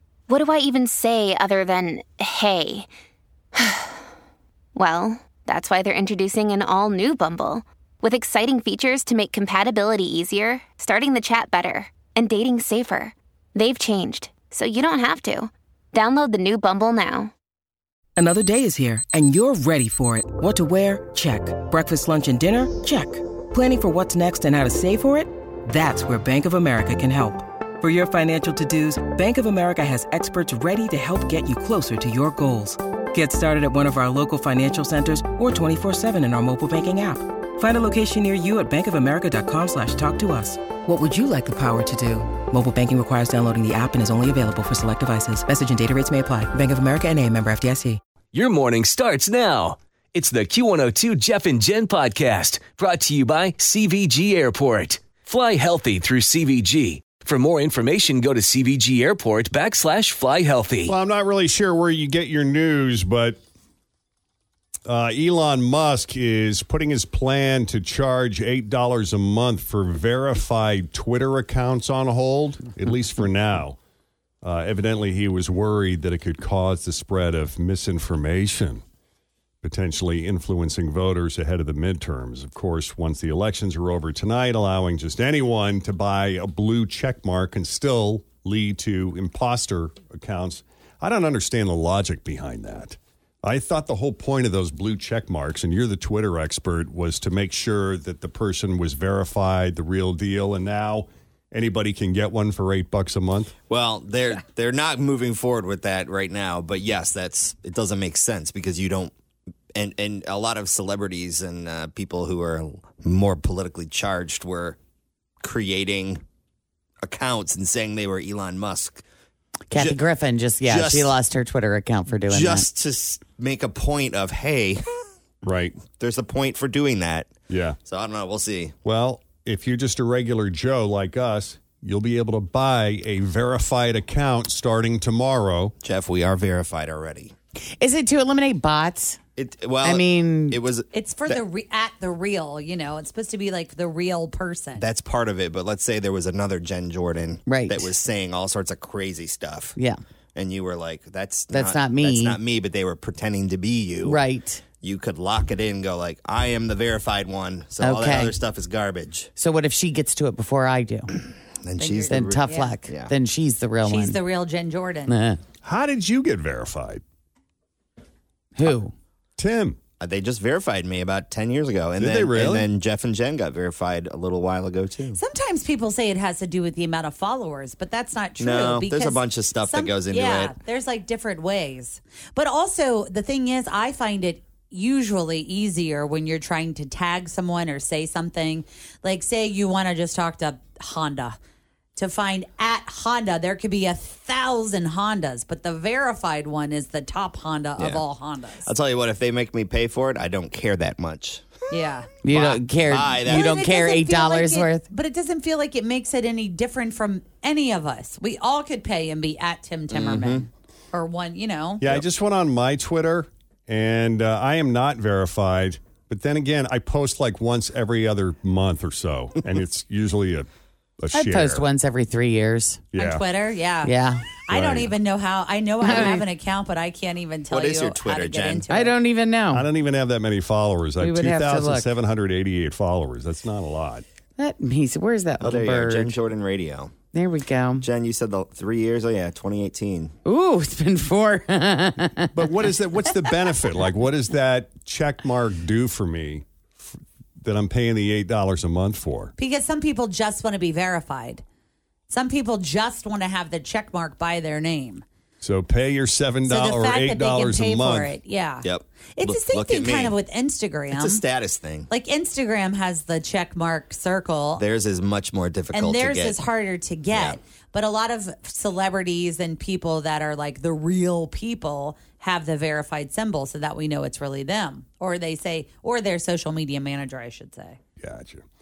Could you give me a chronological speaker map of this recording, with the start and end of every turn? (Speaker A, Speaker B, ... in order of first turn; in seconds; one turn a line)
Speaker A: 0.3-2.9
Speaker A: 3.5-4.0
Speaker A: 4.8-17.3
Speaker B: 18.2-48.0
Speaker C: 48.3-60.9
Speaker D: 60.9-63.4
Speaker D: 64.9-73.8
Speaker D: 74.4-78.8
Speaker D: 79.6-103.5
Speaker E: 103.7-109.1
Speaker E: 109.8-114.8
Speaker E: 115.4-116.2
Speaker E: 117.0-119.0
Speaker F: 119.7-122.7
Speaker E: 119.8-120.0
Speaker E: 120.7-121.2
Speaker E: 122.3-124.8
Speaker D: 125.4-125.8
Speaker E: 125.9-127.3
Speaker D: 127.5-127.8
Speaker E: 127.9-128.8
Speaker D: 128.8-135.8
Speaker E: 135.8-137.3
Speaker F: 137.8-139.2
Speaker E: 139.4-141.4
Speaker F: 139.8-140.6
Speaker G: 140.9-144.9
Speaker E: 144.8-149.8
Speaker F: 147.5-147.9
Speaker E: 150.4-154.2
Speaker F: 151.5-152.4
Speaker F: 154.0-154.6
Speaker E: 154.8-159.3
Speaker F: 157.8-158.3
Speaker F: 159.4-161.1
Speaker E: 161.6-163.1
Speaker G: 161.8-162.8
Speaker F: 162.1-164.2
Speaker G: 163.8-165.2
Speaker F: 165.1-165.4
Speaker D: 165.6-167.0
Speaker F: 168.6-168.9
Speaker D: 169.4-169.8
Speaker E: 170.0-175.2
Speaker D: 172.0-172.7
Speaker G: 175.2-191.4
Speaker E: 178.4-180.6
Speaker G: 192.0-198.7
Speaker E: 198.7-201.6
Speaker G: 201.7-202.1
Speaker F: 202.2-204.8
Speaker E: 202.3-203.7
Speaker G: 203.3-211.9
Speaker E: 209.9-210.4
Speaker D: 211.8-220.5
Speaker D: 221.0-221.7
Speaker F: 221.1-222.8
Speaker D: 222.9-223.2
Speaker G: 223.0-229.0
Speaker F: 223.8-224.2
Speaker D: 224.5-224.9
Speaker F: 225.8-226.2
Speaker E: 227.5-228.7
Speaker F: 228.7-229.7
Speaker D: 229.5-234.1
Speaker F: 231.0-231.9
Speaker F: 234.4-236.1
Speaker E: 235.4-236.9
Speaker F: 237.1-237.8
Speaker E: 237.8-240.1
Speaker F: 240.2-242.5
Speaker D: 242.3-249.3
Speaker G: 249.4-251.4
Speaker G: 252.1-255.0
Speaker D: 255.4-258.1
Speaker G: 256.5-261.2
Speaker E: 258.6-260.2
Speaker E: 260.9-261.9
Speaker G: 261.9-264.6
Speaker E: 264.6-266.4
Speaker G: 265.7-277.8
Speaker E: 267.1-267.4
Speaker D: 278.0-278.5